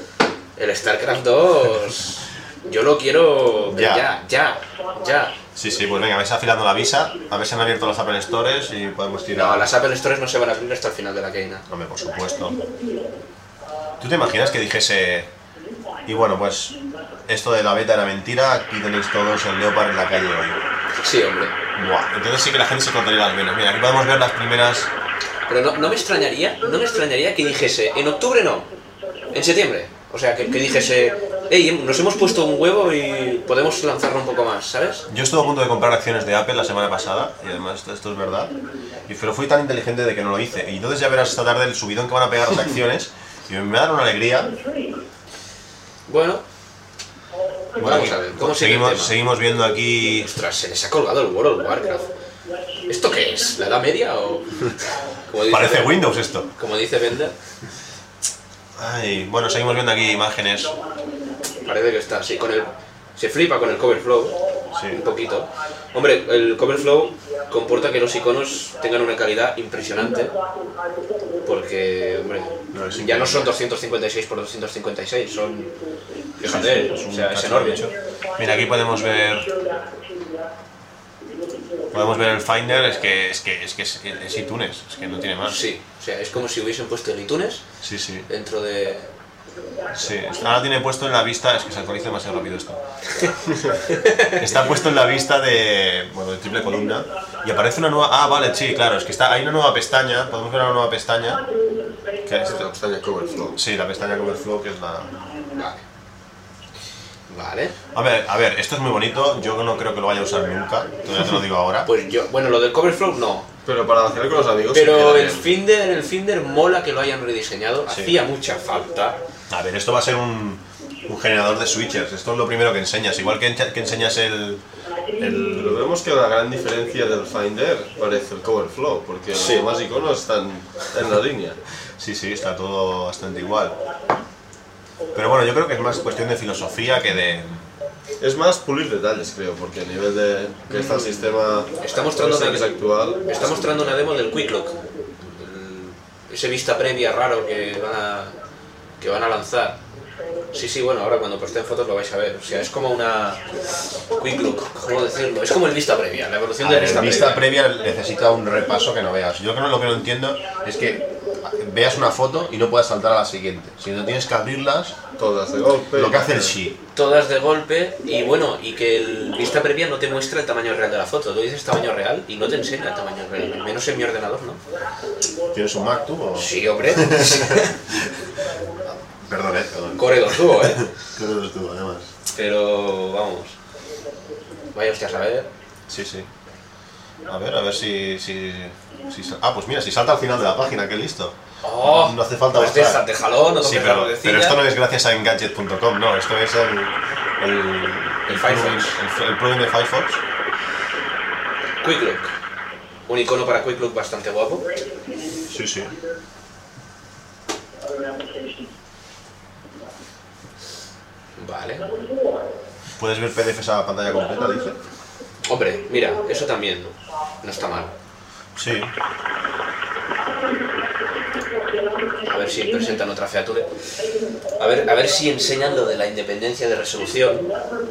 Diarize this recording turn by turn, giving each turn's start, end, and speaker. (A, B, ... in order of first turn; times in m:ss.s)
0:00.6-0:05.4 A
0:03.7-0:04.0 B
0:05.5-0:09.7 B
0:09.3-0:11.6 A
0:11.7-0:12.6 B
0:14.0-0:15.3 B
0:16.0-0:16.8 B
0:17.3-0:20.6 B
0:21.0-0:21.5 A
0:21.8-0:24.9 B
0:25.5-0:28.7 A
0:29.3-0:35.1 A
0:35.1-0:38.5 B
0:39.1-0:44.6 B
0:46.1-0:46.4 A
0:47.8-0:49.2 A
0:47.8-0:50.3 B
0:50.2-0:52.1 A
0:52.9-0:54.7 A
0:55.3-0:55.9 A
0:55.5-0:56.5 B
0:56.6-0:57.4 A
0:58.8-1:00.8 B
1:01.6-1:04.4 A
1:04.7-1:05.0 B
1:04.9-1:10.3 A
1:11.4-1:15.7 A
1:12.7-1:13.5 B
1:16.4-1:17.9 A
1:16.4-1:19.5 B
1:21.9-1:25.6 B
1:25.4-1:27.6 A
1:27.8-1:28.2 B
1:28.3-1:29.1 A
1:29.9-1:32.8 B
1:33.1-1:34.5 A
1:34.4-1:41.4 B
1:42.2-1:42.7 B
1:42.4-1:43.6 C
1:43.5-1:45.1 B
1:45.5-1:45.8 A
1:47.3-1:47.7 A
1:47.9-1:51.9 B
1:51.8-1:53.5 A
1:53.6-1:55.5 C
1:54.7-1:59.2 A
1:57.9-1:58.2 B
1:59.5-2:04.6 B
2:05.2-2:05.8 B
2:05.4-2:11.6 C
2:09.3-2:09.6 A
2:12.0-2:13.8 B
2:15.1-2:17.6 B
2:18.2-2:24.1 C
2:20.7-2:22.7 A
2:23.2-2:28.4 A
2:29.0-2:29.8 A
2:30.5-2:33.4 A
2:34.0-2:37.4 A
2:36.6-2:45.0 B
2:45.2-2:46.6 C
2:45.9-2:46.8 B
2:46.9-2:54.6 A
2:55.5-2:58.1 B
2:56.3-2:57.7 A
2:58.8-3:02.1 B
3:00.0-3:00.8 A
3:02.3-3:03.5 A
3:04.7-3:05.5 A
3:05.9-3:06.3 B
3:07.3-3:13.0 B
3:11.6-3:14.6 A
3:13.6-3:20.2 B
3:18.3-3:19.0 A
3:21.8-3:22.3 A
3:23.1-3:24.7 A
3:25.5-3:25.9 B
3:31.4-3:31.9 A
3:33.0-3:34.8 B
3:35.5-3:36.9 A
3:37.4-3:37.9 A
3:38.5-3:38.9 B
3:42.2-3:43.7 A
3:44.6-3:47.5 A